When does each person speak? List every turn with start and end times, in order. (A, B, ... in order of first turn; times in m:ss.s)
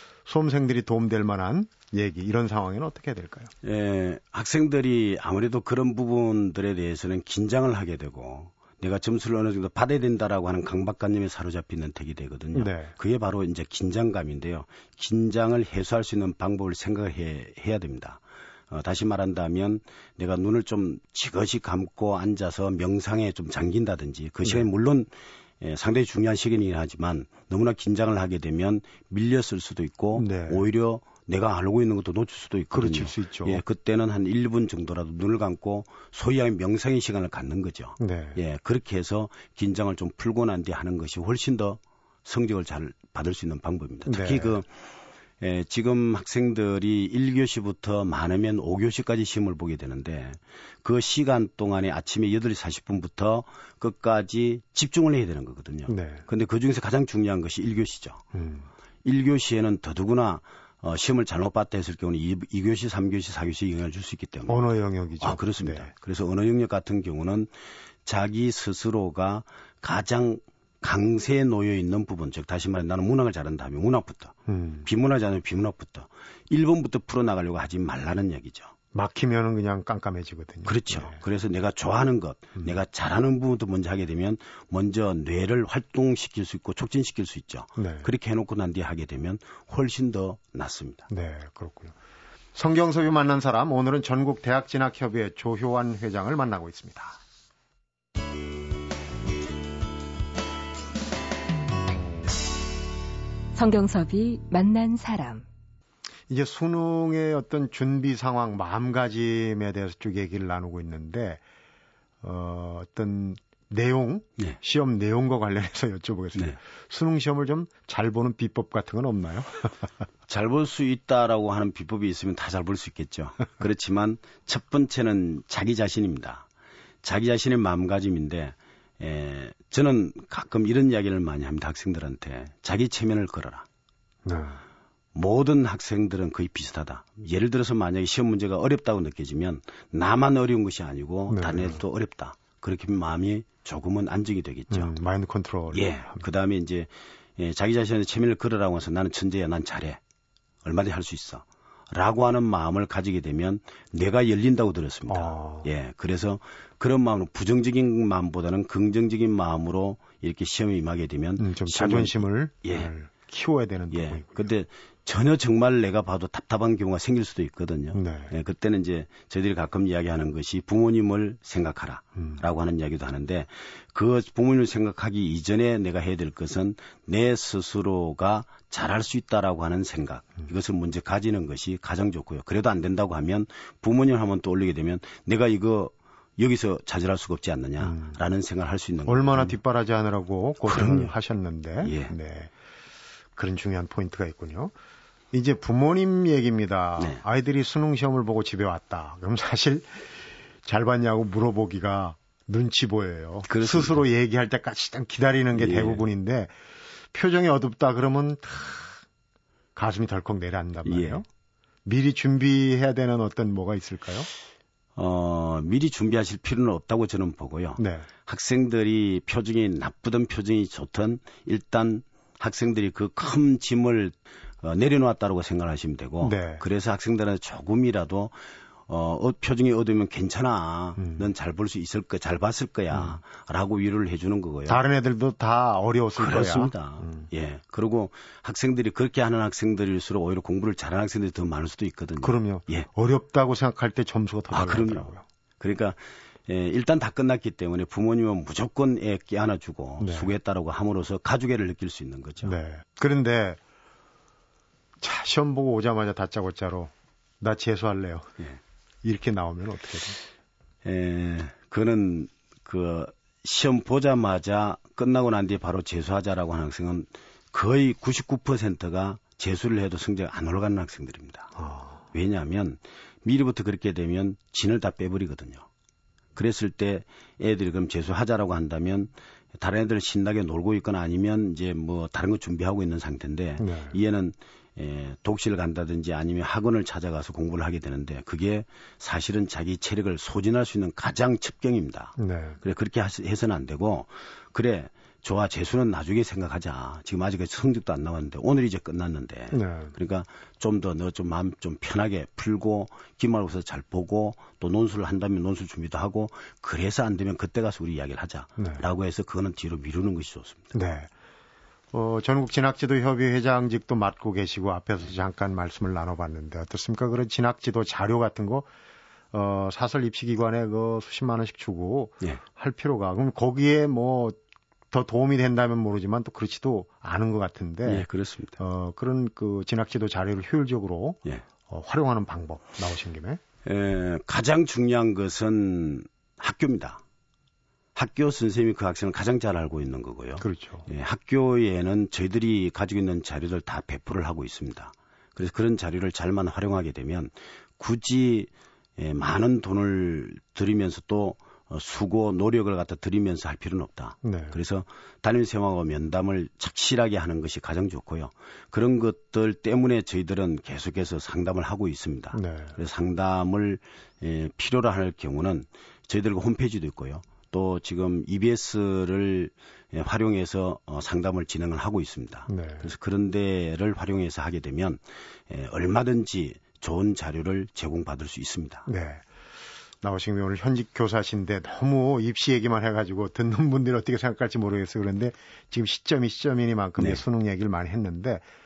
0:00.2-0:03.5 A
0:03.6-0:44.7 B
0:12.5-0:12.9 A
0:30.2-0:30.6 A
0:32.7-0:33.6 A
0:38.0-0:38.4 A
0:44.0-0:44.6 A
0:45.4-0:58.2 B
0:55.9-0:56.2 A
0:58.3-0:58.7 A
0:59.0-1:07.5 B
1:04.5-1:05.9 A
1:08.0-1:18.7 B
1:14.5-1:14.9 A
1:18.9-1:21.2 A
1:20.6-1:31.1 B
1:27.8-1:28.1 A
1:31.1-1:31.9 A
1:32.5-1:37.2 A
1:43.5-1:45.4 C
1:46.3-1:51.4 A
1:52.2-1:59.9 A
2:00.3-2:06.4 B
2:07.0-2:13.6 B
2:14.2-2:14.6 A
2:15.1-2:24.9 B
2:21.3-2:21.8 A
2:24.7-2:26.2 A
2:25.7-2:30.0 B
2:30.6-2:42.9 B
2:35.1-2:35.7 A
2:41.4-2:44.5 A
2:43.9-3:09.6 B
2:47.9-2:48.3 A
3:07.8-3:08.2 A
3:09.0-3:12.5 A
3:10.6-3:11.1 B
3:11.8-3:12.1 B
3:13.4-3:14.7 A
3:15.3-3:26.5 A
3:23.5-3:24.0 B
3:25.5-3:26.0 B
3:27.1-3:29.0 A
3:29.8-3:31.2 A
3:30.8-3:31.2 B
3:31.8-3:34.3 A
3:35.0-3:48.4 B
3:37.8-3:38.1 A
3:46.2-3:46.6 A
3:48.9-3:54.8 B
3:51.0-3:51.2 A
3:54.7-3:57.3 A
3:56.2-4:02.9 B
4:02.2-4:05.2 A
4:04.5-4:12.5 B
4:10.0-4:10.3 A
4:12.4-4:13.6 A
4:15.0-4:18.4 A
4:19.0-4:20.2 A
4:20.8-4:31.5 B
4:31.6-4:32.0 A
4:32.1-4:35.6 B
4:36.3-5:10.7 B
4:43.6-4:44.0 A
4:52.2-4:52.6 A
4:59.5-4:59.9 A
5:08.6-5:08.8 A
5:10.7-5:11.1 A
5:11.9-5:18.7 A
5:19.3-5:24.4 A
5:24.9-5:28.0 A
5:27.8-5:28.6 B
5:28.6-5:33.4 A
5:33.6-5:37.0 B
5:37.9-6:18.9 B
5:40.4-5:40.8 A
5:54.2-5:54.6 A
6:02.3-6:02.8 A
6:12.5-6:12.9 A
6:18.8-6:19.2 A
6:20.0-6:28.4 A